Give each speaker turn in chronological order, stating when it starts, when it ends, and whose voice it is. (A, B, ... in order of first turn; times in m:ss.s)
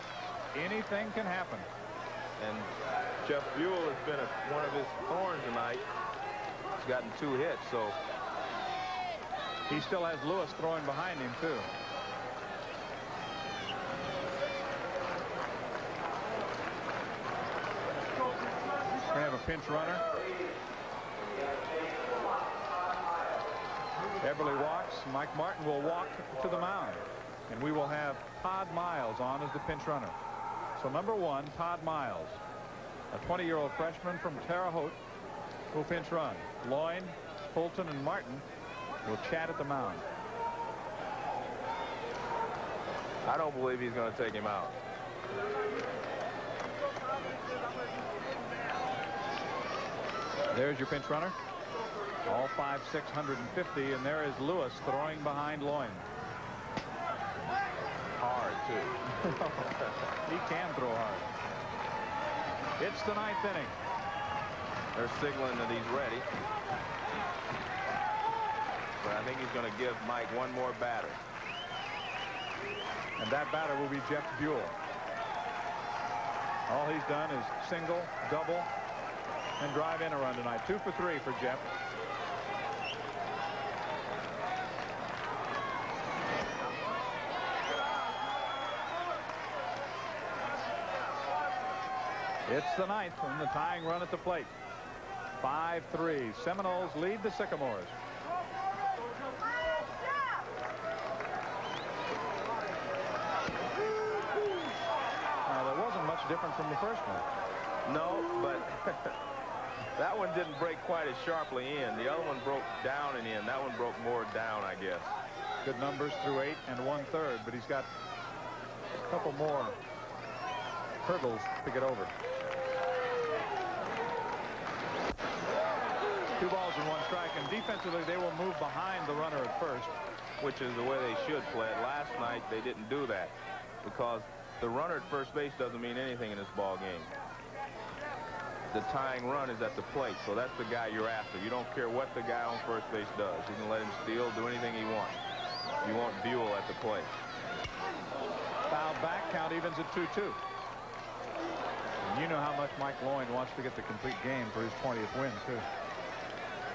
0:00.5-0:01.7 A
0:02.4-0:02.7 B
0:03.2-0:05.9 B
0:06.8-0:08.0 B
0:09.7-0:11.7 A
0:19.1-0:20.1 A
0:24.2-0:30.2 A
0:30.8-0:32.4 A
0:33.1-0:35.0 A
0:35.7-0:38.4 A
0:39.1-0:40.0 A
0:43.2-0:44.8 B
0:50.5-0:51.4 A
0:52.2-0:56.0 A
0:58.2-0:59.1 B
1:00.2-1:01.3 A
1:02.8-1:03.7 A
1:04.9-1:06.3 B
1:09.0-1:11.2 B
1:13.2-1:14.8 A
1:16.7-1:18.7 A
1:19.6-1:21.7 A
1:32.5-1:34.5 A
1:35.4-1:37.9 A
1:45.4-1:47.3 A
1:47.8-1:49.2 B
1:50.0-1:55.2 B
1:55.6-1:57.9 A
1:59.1-1:59.8 A
2:01.0-2:02.1 A
2:06.4-2:09.9 A
2:10.4-2:17.1 B
2:18.7-2:25.2 B
2:25.8-2:27.1 B
2:28.7-2:30.4 A
2:32.0-2:35.7 A